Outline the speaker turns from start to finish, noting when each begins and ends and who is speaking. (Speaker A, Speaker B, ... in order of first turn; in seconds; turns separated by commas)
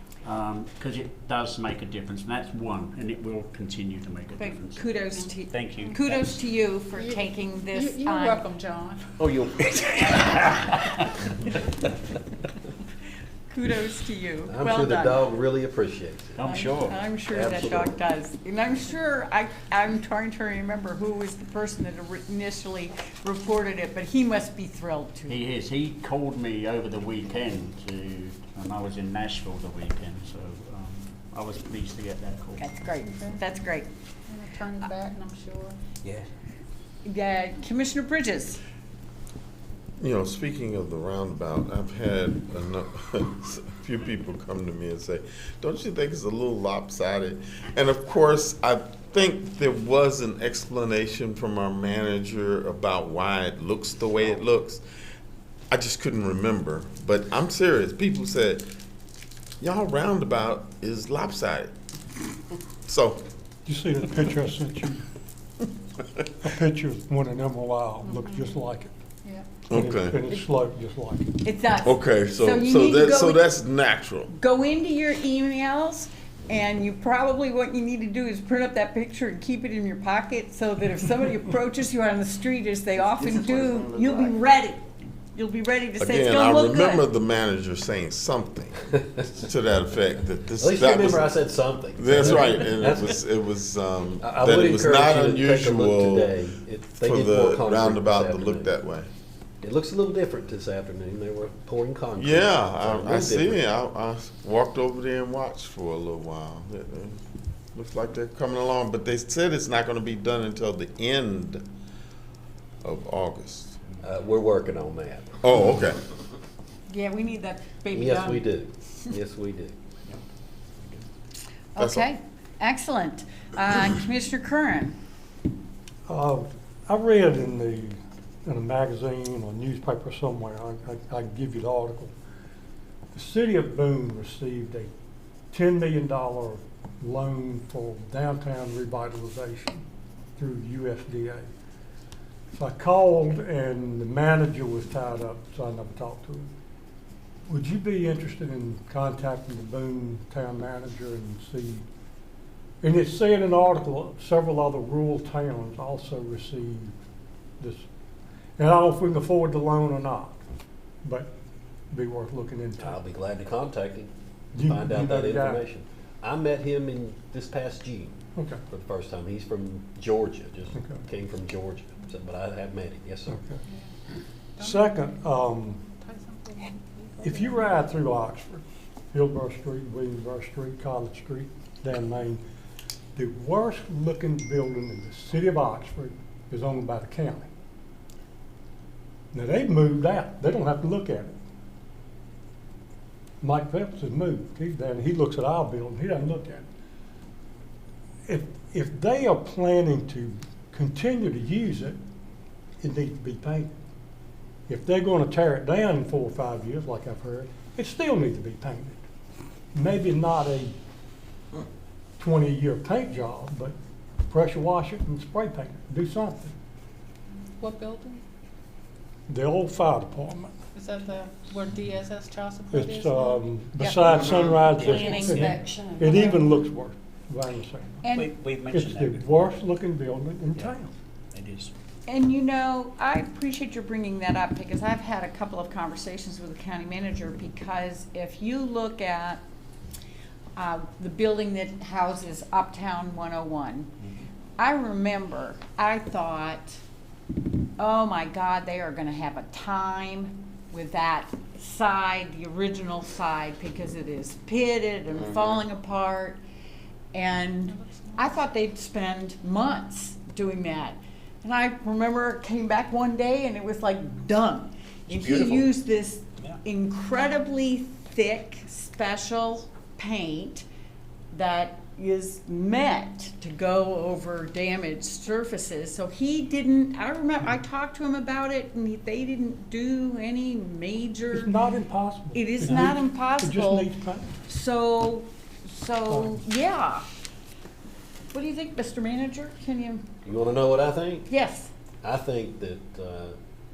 Speaker A: 0.2-4.8, Speaker B: 4.4-8.5, Speaker A: 5.5-6.4, Speaker C: 6.9-9.2, Speaker A: 9.2-11.3, Speaker B: 13.5-15.2, Speaker D: 14.5-16.6, Speaker A: 16.4-17.0, Speaker B: 16.4-25.4, Speaker D: 17.3-18.0, Speaker A: 25.3-32.9, Speaker B: 32.6-33.9, Speaker C: 33.0-33.5, Speaker C: 34.3-35.8, Speaker B: 37.0-38.6, Speaker E: 40.0-54.8, Speaker E: 55.7-58.6, Speaker E: 59.6-61.7, Speaker E: 62.9-63.2, Speaker F: 63.6-65.0, Speaker F: 66.4-68.9, Speaker C: 68.0-68.5, Speaker E: 69.7-70.2, Speaker F: 69.7-71.3, Speaker B: 71.4-73.4, Speaker E: 71.8-74.3, Speaker B: 74.3-84.8, Speaker E: 83.1-84.3, Speaker B: 85.3-87.0, Speaker E: 86.0-99.1, Speaker D: 90.5-93.2, Speaker D: 94.2-98.7, Speaker D: 99.6-103.6, Speaker E: 102.2-107.2, Speaker E: 107.7-111.7, Speaker E: 112.8-113.8, Speaker D: 114.0-115.3, Speaker E: 115.4-116.0, Speaker B: 116.9-118.5, Speaker D: 117.9-119.8, Speaker B: 121.7-124.9, Speaker E: 121.8-122.1, Speaker F: 126.1-132.1, Speaker F: 133.1-134.9, Speaker F: 135.5-139.8, Speaker F: 140.4-141.5, Speaker F: 142.5-146.5, Speaker F: 147.5-151.8, Speaker F: 152.8-156.9, Speaker F: 157.6-157.9, Speaker F: 158.6-160.4, Speaker F: 161.0-161.3, Speaker F: 161.9-163.0, Speaker D: 162.8-168.2, Speaker F: 164.5-165.6, Speaker F: 168.3-168.6, Speaker D: 168.7-173.4, Speaker F: 170.7-171.0, Speaker F: 173.3-173.6, Speaker C: 174.6-175.1, Speaker F: 174.6-175.8, Speaker C: 176.0-177.7, Speaker F: 177.2-182.4, Speaker F: 183.1-187.5, Speaker F: 189.3-191.3, Speaker F: 193.4-196.7, Speaker F: 198.2-202.0, Speaker F: 202.8-203.7, Speaker F: 204.7-209.0, Speaker F: 209.7-210.7, Speaker F: 212.2-213.7, Speaker F: 214.3-216.5, Speaker C: 217.6-218.2, Speaker F: 219.3-220.5, Speaker C: 220.7-223.4, Speaker F: 222.7-228.1, Speaker B: 223.8-226.4, Speaker A: 224.7-225.5, Speaker B: 228.0-228.3, Speaker A: 228.1-229.5, Speaker F: 228.7-230.9, Speaker A: 231.3-231.7, Speaker B: 232.1-239.4, Speaker B: 240.6-243.9, Speaker B: 244.6-246.8, Speaker B: 247.8-256.4, Speaker B: 257.1-270.6, Speaker C: 257.7-258.4, Speaker A: 265.1-265.6, Speaker B: 271.3-281.5, Speaker F: 281.3-284.4, Speaker B: 282.3-283.9, Speaker B: 284.4-287.0, Speaker F: 286.1-286.4, Speaker B: 288.3-290.1, Speaker D: 290.2-291.3, Speaker B: 291.3-291.7, Speaker D: 292.0-293.4